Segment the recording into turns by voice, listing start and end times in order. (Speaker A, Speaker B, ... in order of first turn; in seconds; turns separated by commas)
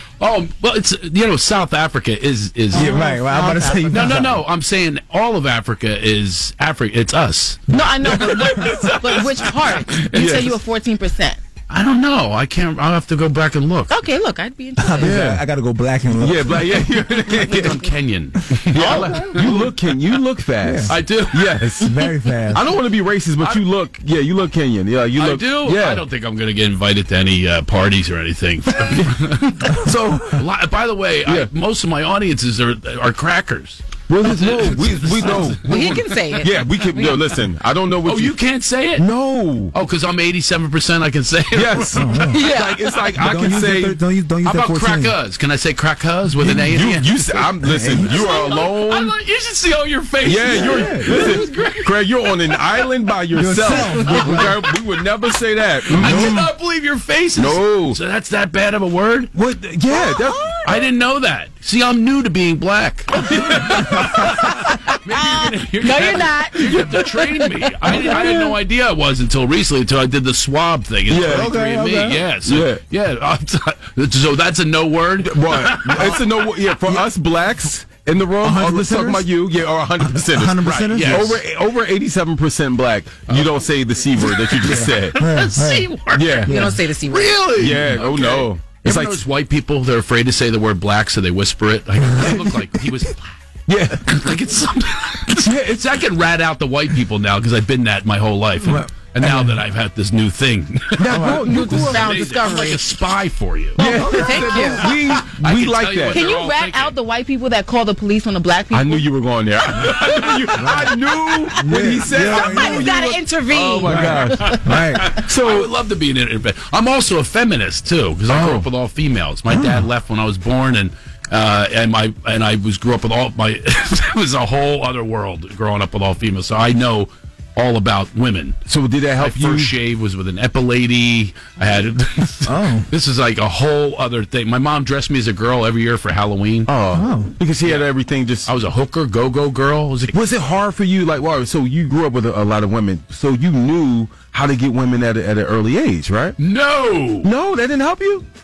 Speaker A: 0.2-3.0, Speaker B: 2.7-4.3, Speaker C: 2.7-4.4, Speaker A: 3.9-10.5, Speaker B: 7.7-11.4, Speaker D: 10.1-10.6, Speaker A: 11.7-14.0, Speaker B: 13.9-15.2, Speaker C: 14.8-16.9, Speaker D: 15.0-15.4, Speaker D: 16.2-17.8, Speaker B: 17.3-17.7, Speaker A: 17.4-19.7, Speaker D: 18.7-21.9, Speaker B: 18.8-19.6, Speaker C: 20.6-20.9, Speaker A: 20.9-22.1, Speaker C: 21.8-22.6, Speaker D: 22.5-26.1, Speaker A: 23.4-23.7, Speaker A: 25.1-36.1, Speaker D: 28.9-30.4, Speaker D: 34.1-38.4, Speaker B: 35.5-37.4, Speaker A: 38.0-39.1, Speaker D: 39.0-39.7, Speaker A: 39.7-42.6, Speaker D: 41.5-44.0, Speaker C: 42.0-42.5, Speaker B: 42.3-43.1, Speaker C: 43.1-45.1, Speaker A: 44.4-52.9, Speaker D: 46.4-49.1, Speaker C: 47.6-48.4, Speaker D: 50.2-56.5, Speaker C: 50.5-51.4, Speaker C: 53.3-54.6, Speaker A: 53.7-54.8, Speaker A: 55.9-59.3, Speaker C: 56.0-56.5, Speaker D: 57.4-58.0, Speaker D: 59.3-60.6, Speaker B: 59.9-60.8, Speaker A: 60.6-76.5, Speaker C: 63.8-64.2, Speaker B: 64.0-68.2, Speaker D: 66.7-67.0, Speaker D: 67.9-68.5, Speaker D: 71.1-71.5, Speaker C: 71.2-72.2, Speaker D: 72.4-72.8, Speaker D: 75.2-85.2, Speaker C: 78.4-79.3, Speaker C: 80.0-81.4, Speaker A: 80.6-81.4, Speaker A: 83.3-83.6, Speaker A: 84.2-93.3, Speaker C: 84.6-85.9, Speaker D: 86.1-86.6, Speaker C: 86.5-86.8, Speaker B: 86.5-87.7, Speaker D: 87.6-89.2, Speaker D: 93.7-94.0, Speaker A: 94.0-107.0, Speaker D: 95.4-95.8, Speaker C: 98.6-99.6, Speaker D: 101.0-102.2, Speaker C: 101.1-101.9, Speaker B: 101.4-103.0, Speaker D: 103.8-106.2, Speaker B: 103.8-105.0, Speaker C: 103.8-104.6, Speaker B: 106.1-109.1, Speaker D: 108.7-114.6, Speaker A: 109.7-111.4, Speaker C: 110.6-111.0, Speaker C: 111.6-113.0, Speaker B: 112.1-115.1, Speaker C: 113.8-115.1, Speaker A: 114.4-128.6, Speaker D: 115.1-115.7, Speaker D: 118.3-118.7, Speaker C: 119.5-119.8, Speaker D: 128.7-129.7, Speaker A: 129.2-136.7, Speaker C: 132.5-132.9, Speaker D: 136.7-138.5, Speaker C: 136.9-137.3, Speaker A: 138.5-140.2, Speaker D: 140.1-146.4, Speaker A: 146.4-147.3, Speaker D: 147.2-148.2